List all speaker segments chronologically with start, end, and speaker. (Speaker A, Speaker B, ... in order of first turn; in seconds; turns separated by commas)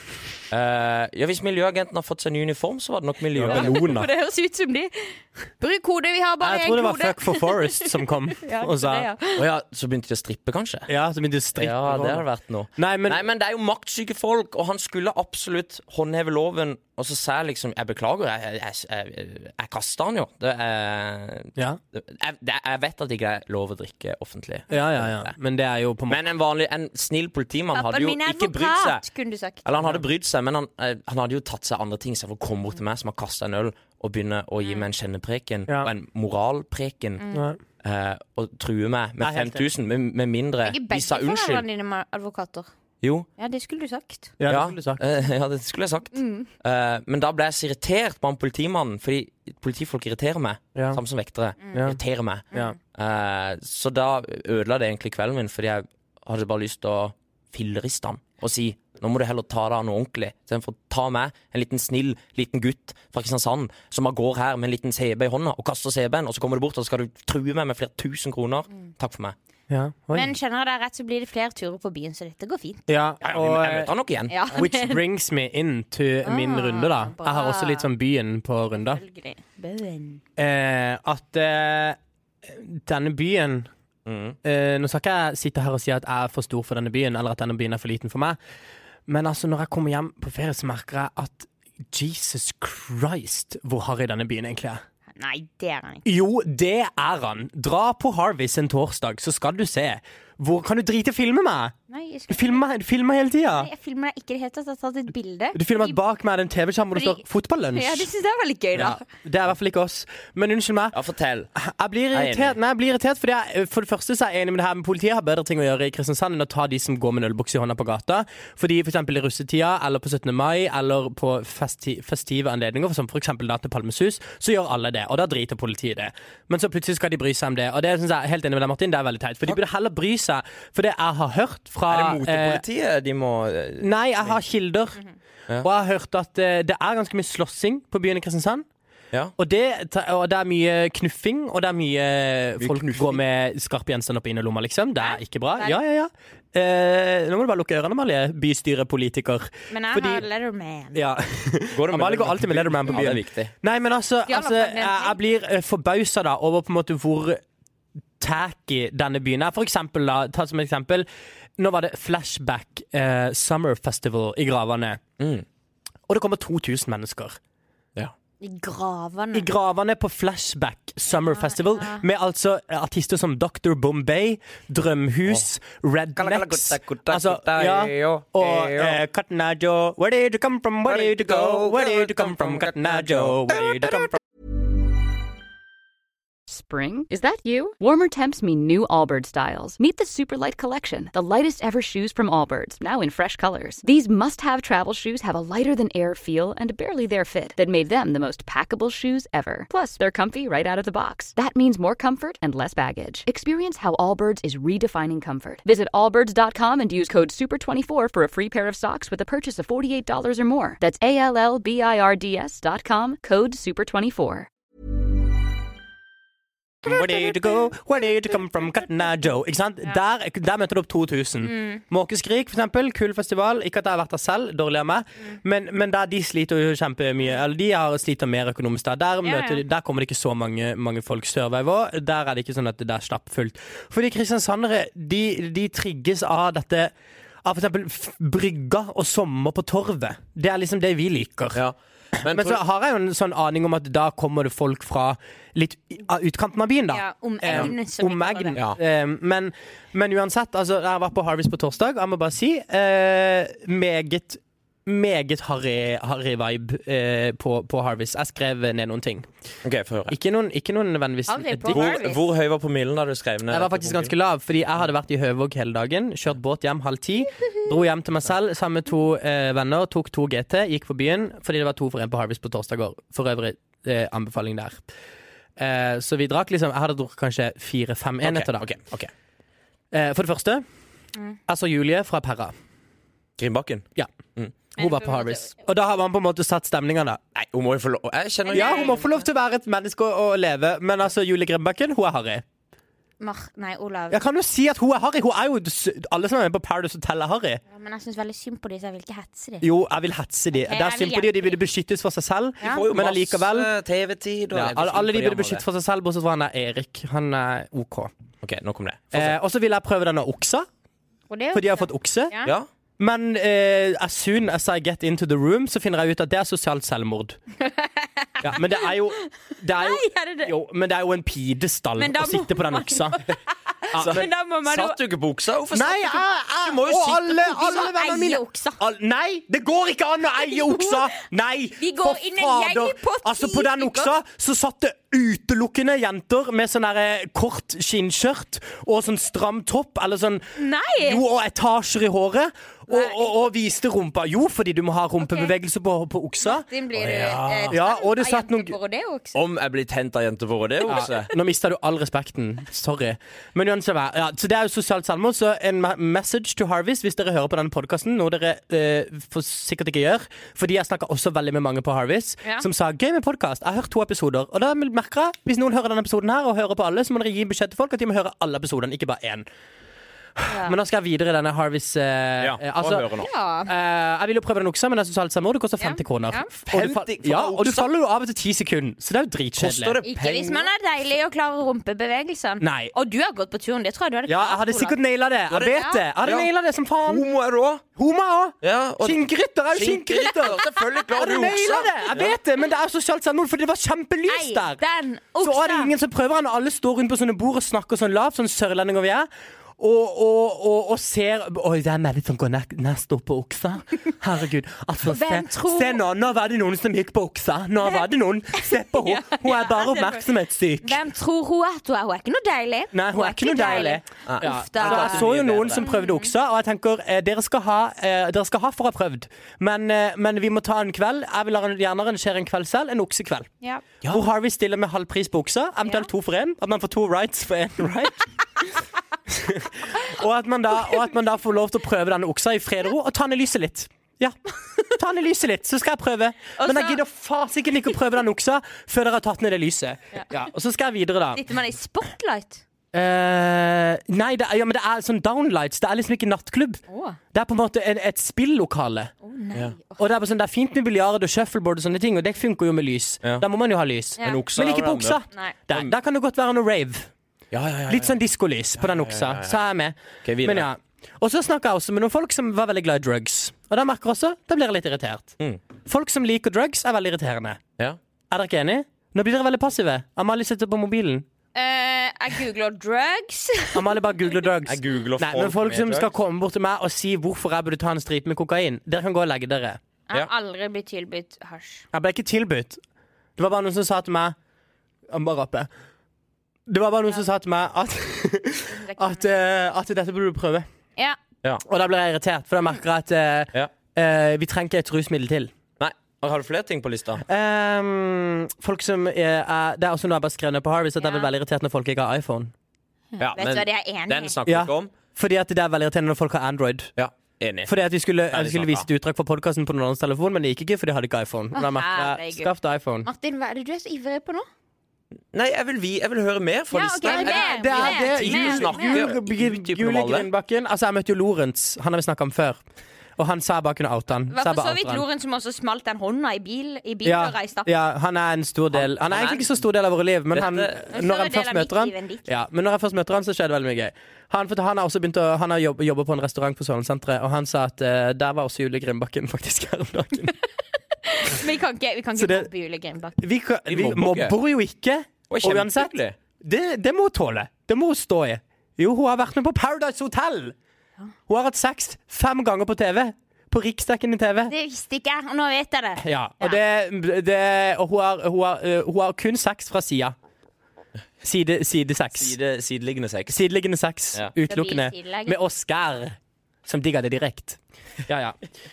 Speaker A: 0.5-3.8, Speaker B: 3.4-4.1, Speaker C: 3.5-9.5, Speaker B: 6.4-9.1, Speaker A: 9.3-10.9, Speaker B: 10.9-12.2, Speaker A: 11.5-25.3, Speaker B: 12.8-13.2, Speaker B: 24.7-26.2, Speaker A: 26.1-29.0, Speaker C: 27.7-29.6, Speaker A: 29.6-37.2, Speaker C: 37.2-37.4, Speaker B: 37.3-37.6, Speaker A: 37.8-41.6, Speaker B: 39.2-39.6, Speaker C: 40.6-42.7, Speaker A: 43.0-43.3, Speaker C: 43.4-44.3, Speaker B: 44.4-45.0, Speaker A: 44.5-69.3, Speaker C: 46.1-46.5, Speaker B: 50.7-51.0, Speaker B: 51.7-52.0, Speaker B: 69.7-70.3, Speaker C: 70.1-72.8, Speaker B: 72.9-73.9, Speaker A: 73.2-74.4, Speaker C: 74.3-75.0, Speaker B: 74.5-79.0, Speaker C: 76.2-77.9, Speaker C: 78.8-80.2, Speaker B: 80.4-83.7, Speaker A: 84.0-84.4, Speaker B: 84.4-88.4, Speaker B: 89.1-94.8, Speaker C: 95.2-96.0, Speaker B: 96.0-101.7, Speaker C: 101.9-102.7, Speaker B: 102.3-103.7, Speaker C: 103.4-106.0, Speaker B: 105.5-108.1, Speaker C: 107.0-107.2, Speaker C: 107.7-109.0, Speaker B: 108.7-111.0, Speaker A: 110.9-111.5, Speaker B: 111.5-132.6, Speaker A: 112.1-112.6, Speaker A: 131.9-134.4, Speaker B: 133.8-135.0, Speaker B: 135.6-138.6, Speaker B: 139.4-150.2, Speaker A: 142.6-143.2, Speaker C: 145.0-145.8, Speaker C: 149.7-151.0, Speaker B: 150.9-157.4, Speaker A: 151.7-153.5, Speaker C: 154.3-155.2, Speaker B: 158.2-161.1, Speaker B: 161.6-165.0, Speaker A: 165.2-165.4, Speaker B: 166.1-167.4, Speaker C: 168.4-169.5, Speaker B: 169.3-184.2, Speaker C: 171.2-172.0, Speaker A: 176.2-179.0, Speaker A: 180.8-184.0, Speaker D: 186.5-214.5, Speaker B: 216.8-236.9, Speaker C: 221.5-221.8, Speaker C: 229.2-229.6, Speaker B: 237.4-241.6, Speaker A: 241.5-242.6, Speaker B: 242.2-259.3, Speaker C: 246.9-248.6, Speaker A: 259.6-260.1, Speaker B: 260.1-261.9, Speaker C: 261.3-262.2, Speaker A: 261.7-264.1, Speaker B: 263.5-274.8, Speaker B: 275.6-278.7, Speaker A: 278.2-279.1, Speaker B: 279.9-280.6, Speaker B: 281.5-282.5, Speaker A: 283.4-284.5, Speaker B: 284.7-287.2, Speaker C: 284.8-285.5, Speaker A: 287.3-289.1, Speaker C: 288.4-289.1, Speaker B: 288.5-292.4, Speaker C: 293.2-294.2, Speaker B: 294.1-297.6, Speaker C: 297.7-299.6, Speaker B: 299.6-303.7, Speaker C: 300.6-301.6, Speaker C: 302.6-302.9, Speaker A: 302.6-305.6, Speaker B: 304.5-308.1, Speaker A: 308.4-309.4, Speaker B: 309.1-310.7, Speaker C: 311.3-312.5, Speaker B: 311.5-312.3, Speaker B: 313.0-317.4, Speaker C: 317.6-320.5, Speaker B: 318.4-323.2, Speaker C: 322.0-325.0, Speaker B: 323.9-324.2, Speaker A: 324.0-327.9, Speaker B: 325.7-346.6, Speaker C: 327.5-328.8, Speaker C: 330.4-331.1, Speaker C: 331.8-334.1, Speaker C: 340.6-341.2, Speaker C: 342.9-343.2, Speaker C: 345.2-345.5, Speaker C: 346.4-349.4, Speaker A: 346.9-347.8, Speaker B: 347.7-348.8, Speaker A: 349.3-351.3, Speaker C: 350.9-351.1, Speaker B: 350.9-369.4, Speaker B: 370.4-373.1, Speaker C: 370.5-370.7, Speaker A: 372.4-373.3, Speaker C: 373.2-373.7, Speaker B: 373.6-380.0, Speaker C: 375.8-376.5, Speaker A: 376.6-377.9, Speaker A: 379.6-380.7, Speaker C: 380.0-385.0, Speaker B: 382.6-382.9, Speaker B: 384.3-387.2, Speaker A: 385.5-386.5, Speaker C: 385.7-386.0, Speaker A: 387.0-387.8, Speaker B: 387.9-394.8, Speaker A: 388.6-392.3, Speaker C: 390.5-390.9, Speaker C: 394.3-395.9, Speaker B: 395.4-399.3, Speaker B: 399.8-411.0, Speaker C: 405.0-406.0, Speaker C: 407.8-410.3, Speaker C: 410.8-416.3, Speaker B: 412.9-423.5, Speaker A: 414.2-415.9, Speaker B: 424.0-428.3, Speaker B: 429.3-441.4, Speaker C: 436.6-437.0, Speaker C: 441.3-442.6, Speaker B: 442.9-446.8, Speaker C: 446.9-447.2, Speaker B: 447.3-449.1, Speaker C: 449.2-450.0, Speaker B: 450.0-457.1, Speaker A: 454.2-455.9, Speaker C: 454.2-454.4, Speaker A: 457.5-458.2, Speaker B: 457.9-467.6, Speaker A: 458.8-459.6, Speaker A: 460.2-460.7, Speaker B: 468.3-471.2, Speaker C: 471.5-474.0, Speaker B: 473.7-479.8, Speaker A: 474.6-476.1, Speaker C: 480.1-481.9, Speaker B: 481.9-482.8, Speaker B: 483.4-484.3, Speaker B: 485.1-485.7, Speaker B: 486.7-490.7, Speaker C: 488.7-489.3, Speaker B: 491.6-495.5, Speaker A: 495.8-497.2, Speaker B: 497.2-502.5, Speaker C: 501.0-501.3, Speaker C: 503.1-504.4, Speaker A: 503.2-504.9, Speaker B: 504.4-506.9, Speaker A: 506.9-507.7, Speaker B: 507.6-513.1, Speaker A: 508.3-508.9, Speaker C: 511.5-512.5, Speaker C: 513.0-514.5, Speaker A: 515.3-520.3, Speaker C: 516.7-519.0, Speaker B: 517.0-522.6, Speaker B: 523.2-525.0, Speaker C: 524.3-527.7, Speaker B: 527.0-540.4, Speaker A: 528.7-529.6, Speaker A: 530.3-530.7, Speaker C: 530.9-532.2, Speaker C: 541.0-543.2, Speaker B: 542.2-542.5, Speaker B: 543.2-550.5, Speaker A: 543.7-544.4, Speaker A: 545.3-546.1, Speaker B: 551.3-554.5, Speaker C: 554.5-556.6, Speaker B: 556.0-560.1, Speaker B: 561.2-562.4, Speaker A: 562.1-563.4, Speaker B: 563.3-568.4, Speaker C: 564.5-565.4